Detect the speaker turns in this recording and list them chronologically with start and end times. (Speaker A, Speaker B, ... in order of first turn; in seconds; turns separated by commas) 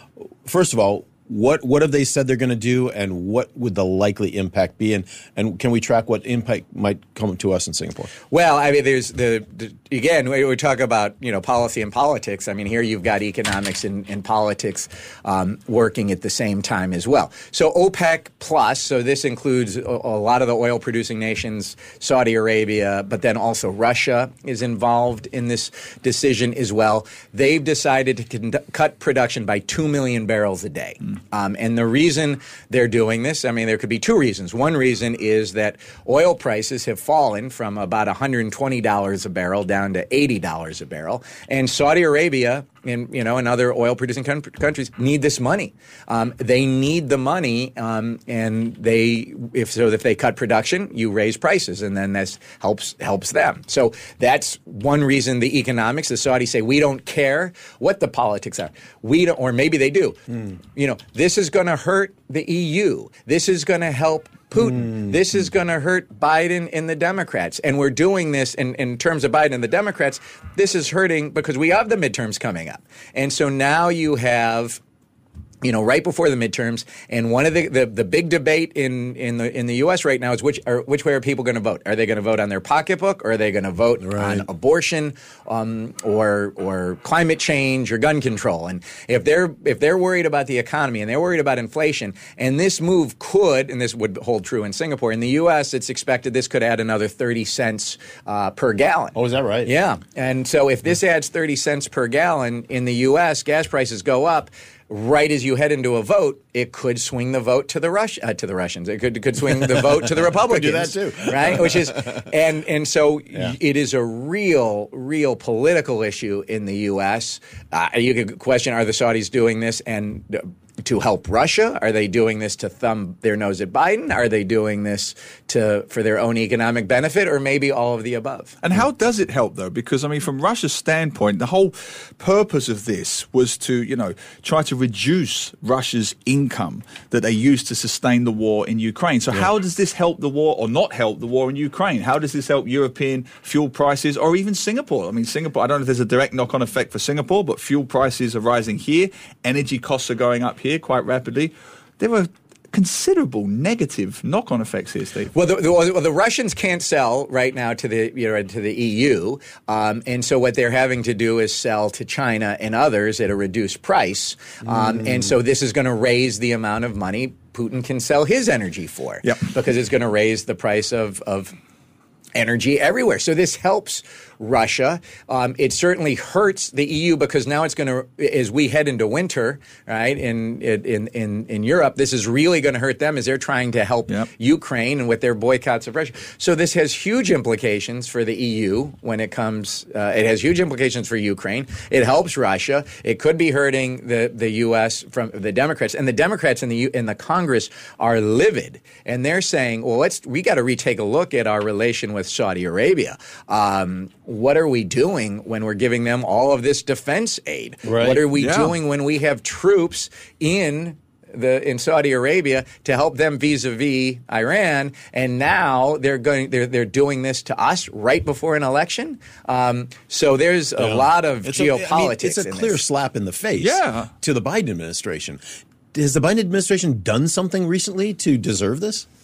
Speaker A: 0.4-8.1, Speaker B: 8.3-74.8, Speaker B: 75.6-128.6, Speaker A: 84.0-84.5, Speaker A: 99.1-99.7, Speaker A: 109.8-112.3, Speaker C: 128.6-155.3, Speaker B: 155.3-171.5, Speaker B: 172.3-222.8, Speaker A: 207.8-208.2, Speaker C: 208.3-208.8, Speaker A: 220.8-225.4, Speaker C: 223.6-224.1, Speaker A: 225.9-229.1